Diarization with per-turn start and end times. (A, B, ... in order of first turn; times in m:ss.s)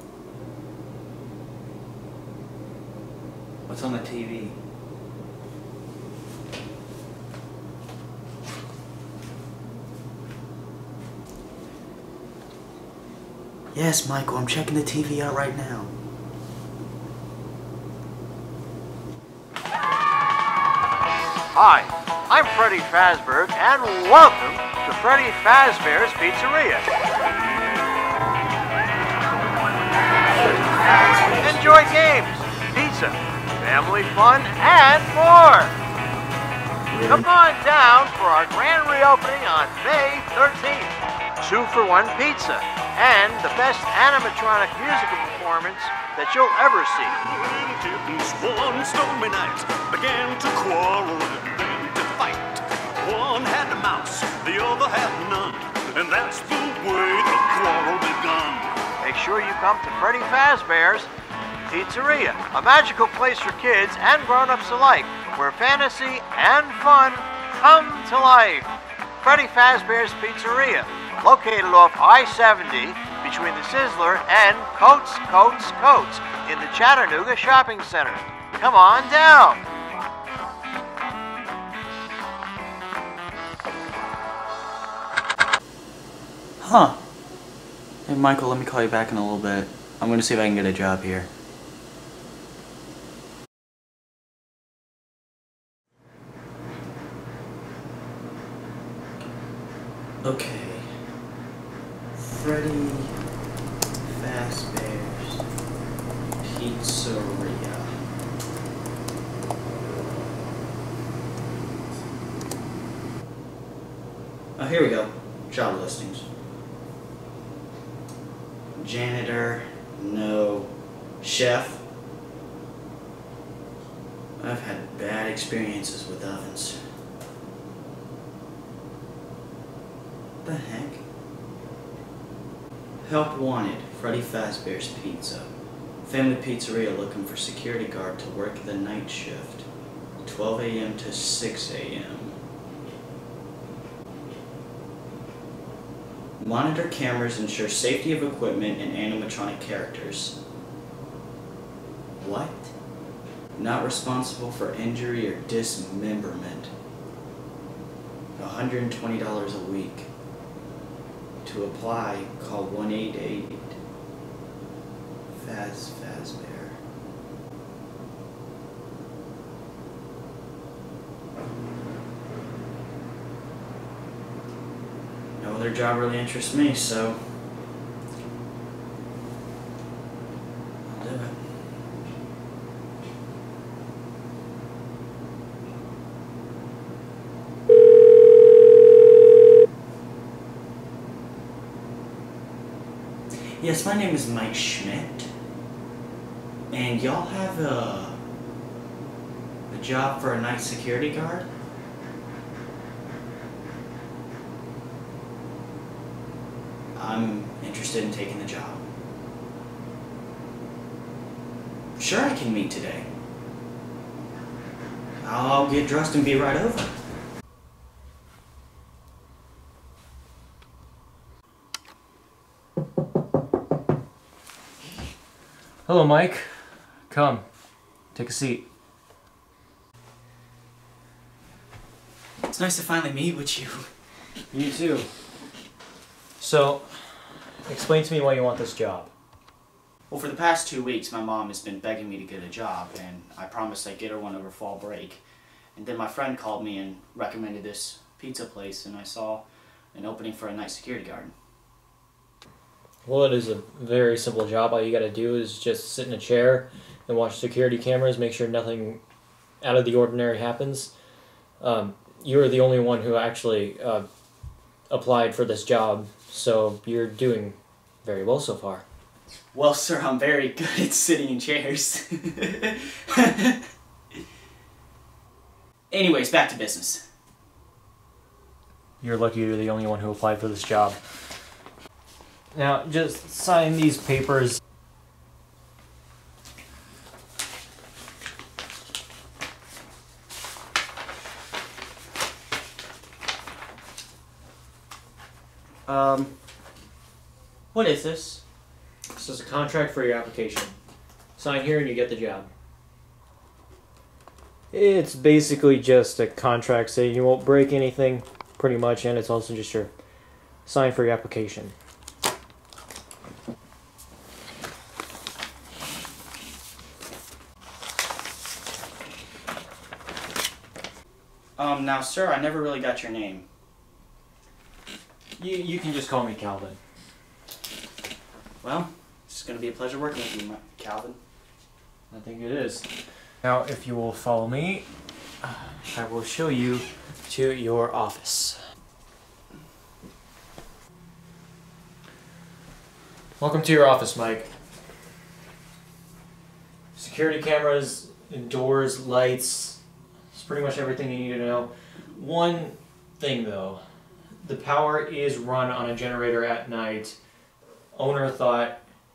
0:03.7-0:04.6 A
0:13.7-0:15.9 A
0:21.6-0:26.9 B
0:31.2-0:35.7 B
0:36.9-0:37.2 A
0:37.0-0:47.2 B
0:47.2-0:58.9 C
0:59.0-1:01.1 B
1:01.7-1:08.7 B
1:09.2-1:19.6 B
1:26.6-1:27.0 A
1:28.1-1:31.3 A
1:40.2-1:41.0 A
1:42.2-1:43.2 A
1:44.0-1:45.4 A
1:46.4-1:48.0 A
1:54.6-1:56.3 A
1:58.8-2:01.8 A
2:04.4-2:06.8 A
2:10.4-2:11.0 A
2:13.0-2:15.5 A
2:16.0-2:19.7 A
2:20.2-2:22.4 A
2:26.4-2:30.4 A
2:32.2-2:32.7 A
2:33.6-2:36.7 A
2:38.4-2:40.1 A
2:41.4-2:43.8 A
2:45.3-2:46.8 A
2:55.4-2:57.2 A
3:00.9-3:01.4 A
3:13.6-3:15.3 A
3:16.7-3:18.2 A
3:19.7-3:21.5 A
3:27.0-3:28.8 A
3:32.0-3:33.1 A
3:35.2-3:37.0 A
3:45.9-3:47.4 D
3:48.1-3:48.7 D
3:52.4-3:53.9 A
3:54.5-3:55.1 D
3:56.4-3:59.1 D
4:00.1-4:05.2 A
4:05.8-4:11.3 A
4:13.0-4:19.0 D
4:19.6-4:20.9 D
4:21.6-4:24.1 D
4:24.9-4:28.8 D
4:29.5-4:33.7 A
4:35.9-4:37.0 A
4:39.0-4:41.0 D
4:42.5-4:44.6 D
4:55.9-4:56.3 A
4:57.7-4:58.4 A
4:59.1-5:00.8 D
5:01.4-5:02.5 D
5:04.7-5:09.9 D
5:10.6-5:11.8 D
5:21.6-5:23.5 A
5:25.4-5:26.8 D
5:28.6-5:31.2 A
5:32.1-5:32.9 D
5:33.4-5:34.9 D
5:35.4-5:38.6 D
5:43.4-5:44.5 D
5:47.0-5:49.8 D
5:50.3-5:53.8 D
5:54.4-5:57.2 D
5:58.0-5:58.8 D